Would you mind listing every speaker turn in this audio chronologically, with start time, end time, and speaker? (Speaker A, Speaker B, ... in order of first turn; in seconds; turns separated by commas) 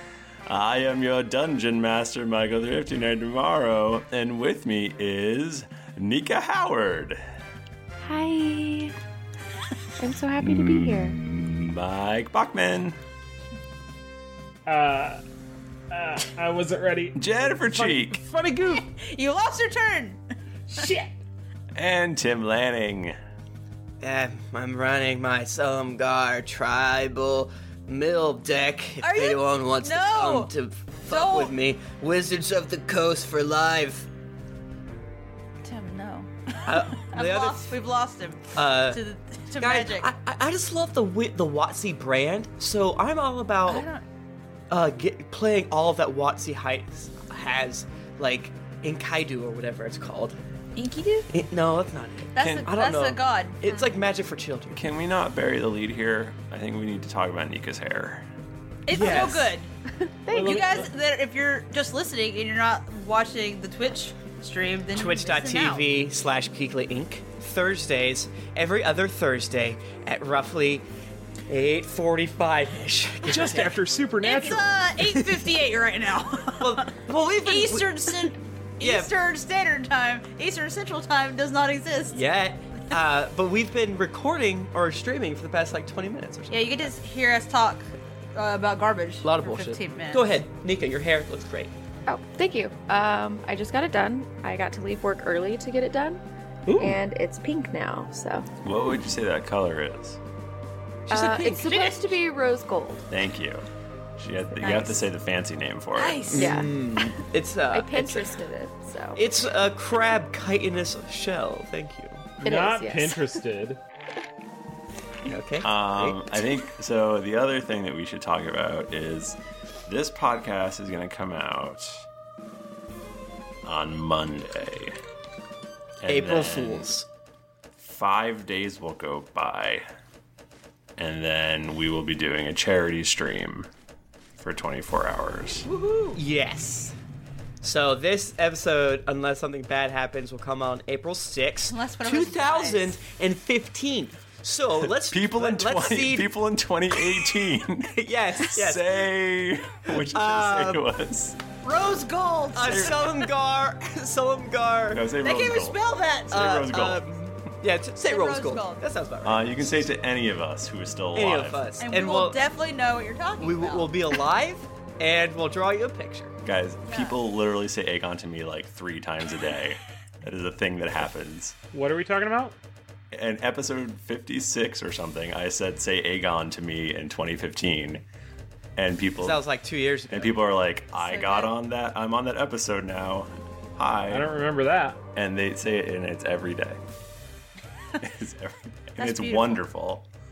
Speaker A: 0.5-7.2, Speaker B: 8.0-8.9, Speaker B: 10.0-11.2, Speaker A: 10.4-13.0, Speaker C: 14.7-15.2, Speaker C: 15.9-18.8, Speaker A: 17.1-18.2, Speaker D: 18.8-20.2, Speaker C: 20.7-21.1, Speaker A: 21.7-23.1, Speaker E: 24.0-34.1, Speaker D: 29.0-30.5, Speaker D: 31.1-31.5, Speaker D: 35.6-40.1, Speaker E: 36.6-37.7, Speaker E: 38.5-39.0, Speaker E: 39.6-43.9, Speaker D: 43.6-44.0, Speaker E: 44.7-50.4, Speaker D: 50.7-51.3, Speaker E: 51.3-54.8, Speaker D: 52.3-53.9, Speaker A: 54.7-58.2, Speaker D: 58.9-59.7, Speaker E: 58.9-59.5, Speaker B: 60.3-60.8, Speaker C: 60.3-60.8, Speaker D: 60.3-65.8, Speaker E: 64.9-70.8, Speaker E: 71.5-73.8, Speaker C: 73.2-75.6, Speaker D: 74.2-82.2, Speaker E: 76.6-79.1, Speaker E: 82.1-86.9, Speaker D: 86.5-90.3, Speaker E: 89.2-91.7, Speaker B: 92.1-96.2, Speaker C: 96.7-97.0, Speaker B: 96.7-98.5, Speaker A: 98.6-100.2, Speaker E: 101.1-101.9, Speaker B: 101.1-103.0, Speaker D: 101.4-101.9, Speaker A: 103.1-103.6, Speaker A: 104.2-106.4, Speaker B: 104.5-105.0, Speaker B: 106.0-107.1, Speaker E: 106.3-108.3, Speaker B: 107.7-109.2, Speaker E: 109.2-112.2, Speaker C: 112.4-113.8, Speaker B: 112.4-113.4, Speaker E: 115.2-116.2, Speaker A: 115.6-122.0, Speaker A: 123.6-125.0, Speaker A: 126.0-126.9, Speaker E: 126.1-127.0, Speaker A: 127.8-129.8, Speaker A: 131.0-133.7, Speaker A: 134.4-135.7, Speaker D: 135.7-136.2, Speaker E: 136.1-136.9, Speaker E: 137.6-146.3, Speaker D: 141.7-142.9, Speaker A: 144.8-151.4, Speaker E: 147.9-148.9, Speaker E: 149.8-150.8, Speaker D: 151.6-153.2, Speaker E: 152.5-155.0, Speaker A: 154.9-157.2, Speaker D: 155.2-156.7, Speaker E: 156.3-159.9, Speaker D: 158.0-158.8, Speaker A: 159.2-161.7, Speaker E: 161.1-162.4, Speaker D: 161.8-163.9, Speaker E: 163.4-166.3, Speaker A: 166.4-171.6, Speaker D: 166.9-167.2, Speaker C: 171.7-172.6, Speaker A: 173.1-178.0, Speaker A: 178.8-179.4, Speaker E: 179.2-180.5, Speaker A: 180.1-184.3, Speaker D: 181.0-181.5, Speaker C: 184.1-185.0, Speaker A: 185.1-186.8, Speaker A: 188.0-190.0, Speaker D: 189.0-189.6